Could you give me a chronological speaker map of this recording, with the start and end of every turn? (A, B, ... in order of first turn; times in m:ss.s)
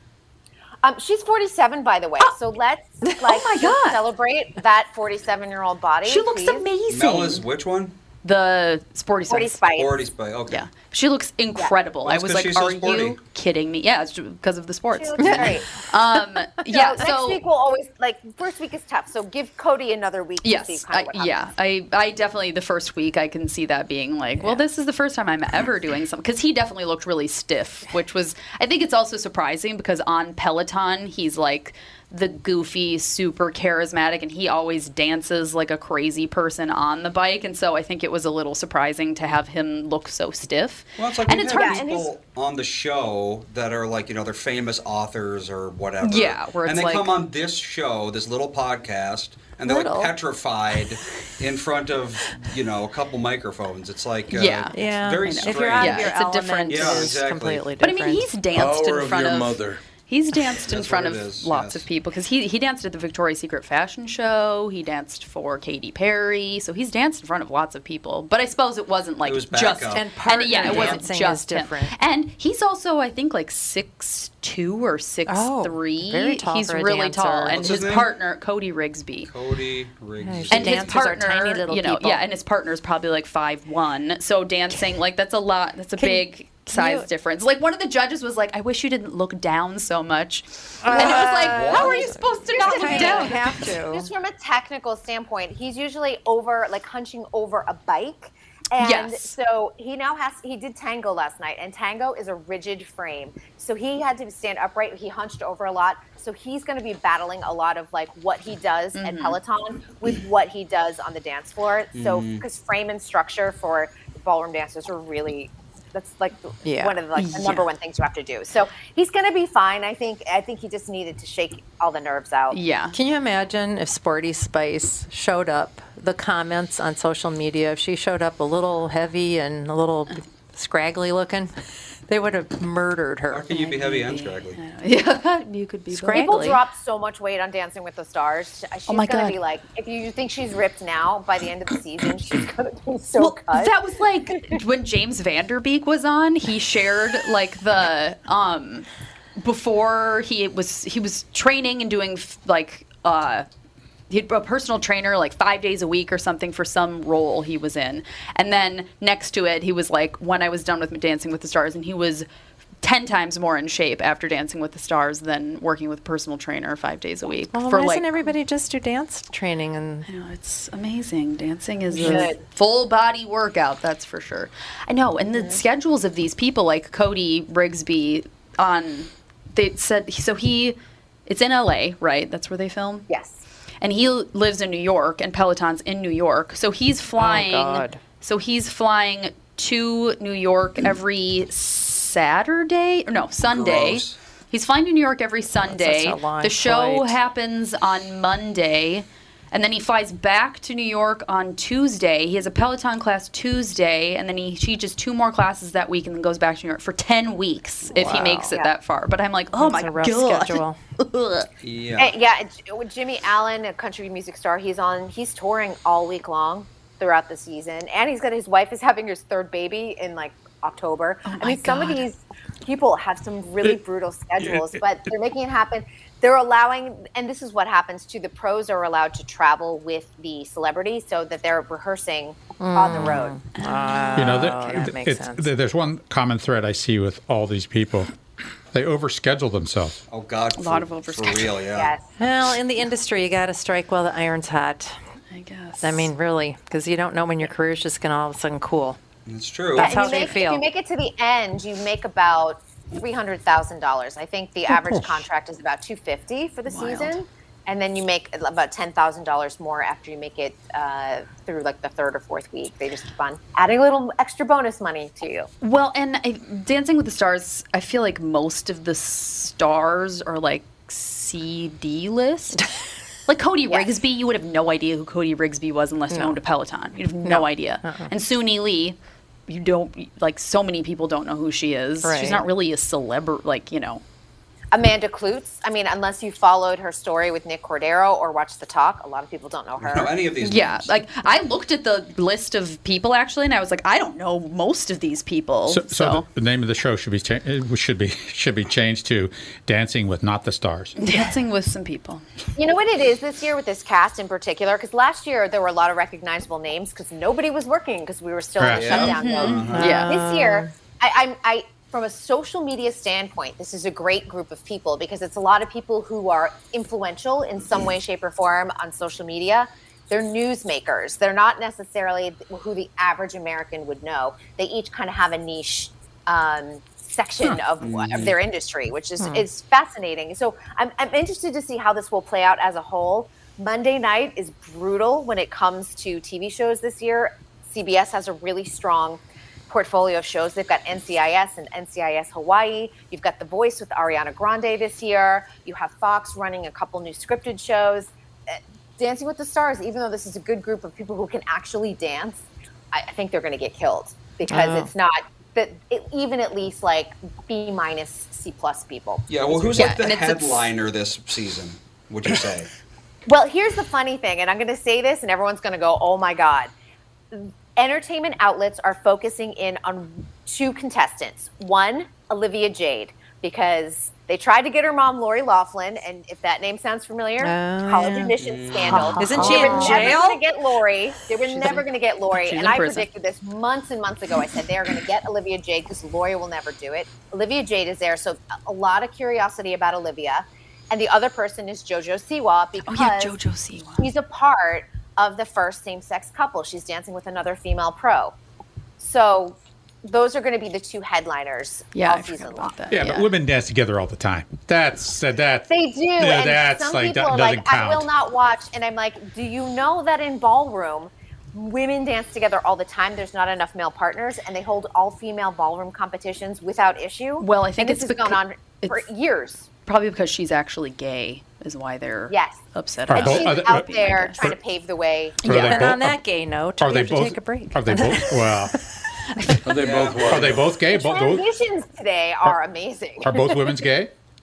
0:00.8-0:06.7 A
0:03.2-0:04.0 B
0:06.0-0:07.4 B
0:06.9-0:08.0 C
0:08.2-0:09.6 B
0:09.3-0:09.9 A
0:09.7-0:10.7 C
0:10.5-0:17.4 B
0:12.0-0:13.2 C
0:14.9-0:15.7 A
0:15.2-0:15.5 D
0:16.7-0:21.3 A
0:20.4-0:41.9 B
0:41.0-0:56.2 C
0:41.5-0:42.1 A
0:46.0-0:47.2 B
0:49.6-0:50.1 D
0:54.3-0:57.2 B
0:54.7-0:58.2 D
0:56.7-0:57.7 C
0:57.8-1:19.3 B
0:58.5-0:59.8 E
1:00.6-1:01.9 C
1:09.2-1:11.0 C
1:09.9-1:11.9 D
1:15.3-1:17.6 D
1:17.5-1:18.1 C
1:19.2-1:20.9 C
1:20.2-1:22.2 D
1:20.5-1:33.7 B
1:26.0-1:27.1 D
1:30.8-1:34.1 D
1:31.0-2:02.6 A
1:38.8-1:39.3 B
1:48.9-1:49.4 B
1:51.9-1:52.4 C
1:56.6-1:57.0 D
1:57.1-1:57.7 B
2:02.5-2:03.0 B
2:02.9-2:11.5 D
2:12.1-2:13.5 D
2:13.3-2:14.6 C
2:13.5-2:16.4 B
2:15.9-2:16.6 D
2:16.1-2:23.7 A
2:18.9-2:19.4 B
2:23.2-2:33.4 B
2:34.1-2:42.2 B
2:42.8-2:48.2 B
2:47.5-2:50.1 D
2:50.1-3:03.1 B
2:51.9-2:52.4 A
2:52.0-2:52.3 D
3:03.1-3:03.4 A
3:03.8-3:31.5 B
3:07.2-3:08.0 D
3:13.4-3:14.2 C
3:15.6-3:17.2 D
3:27.9-3:28.6 D
3:29.6-3:30.8 D
3:31.6-3:32.1 C
3:32.0-3:53.4 A
3:41.2-3:42.0 B
3:52.6-3:55.5 D
3:53.6-3:54.5 B
3:54.2-3:58.1 F
3:58.7-4:00.0 F
4:00.1-4:01.9 C
4:00.6-4:01.6 B
4:01.7-4:02.0 A
4:02.2-4:05.0 D
4:05.3-4:06.1 B
4:05.8-4:09.0 D
4:09.3-4:10.0 C
4:09.8-4:10.6 D
4:09.8-4:25.5 A
4:16.7-4:17.2 B
4:25.6-4:32.7 B
4:33.3-4:39.0 B
4:36.1-4:36.4 D
4:37.2-4:38.1 D
4:39.5-4:44.0 B
4:42.0-4:42.5 D
4:44.7-4:50.2 A
4:49.8-4:50.9 C
4:50.4-4:56.2 B
4:55.7-5:01.0 F
5:01.0-5:02.2 B
5:02.6-6:00.0 A
5:08.6-5:09.1 F
5:08.7-5:09.9 C
5:08.9-5:10.1 B
5:09.7-5:10.7 D
5:27.8-5:28.4 C
5:29.2-5:29.5 D
5:54.5-5:54.9 D
5:59.3-6:02.7 C
5:59.8-6:00.7 B
6:03.2-6:06.7 A
6:07.3-6:33.3 A
6:17.4-6:18.3 D
6:18.4-6:19.7 C
6:18.9-6:20.4 D
6:19.3-6:20.2 B
6:21.4-6:21.8 D
6:21.6-6:23.1 B
6:32.8-6:34.1 B
6:34.0-6:38.3 A
6:39.0-6:42.7 A
6:41.9-6:43.3 B
6:42.9-6:48.1 F
6:45.7-6:59.7 A
6:57.4-6:59.0 B
6:59.8-7:04.4 B
7:02.3-7:02.6 A
7:03.1-7:04.6 F
7:03.1-7:05.7 A
7:05.4-7:05.8 B
7:05.4-7:06.2 F
7:05.4-7:08.6 D
7:06.8-7:08.8 F
7:09.6-7:10.7 E
7:09.7-7:10.6 C
7:10.2-7:11.5 F
7:10.8-7:13.8 A
7:13.2-7:14.1 F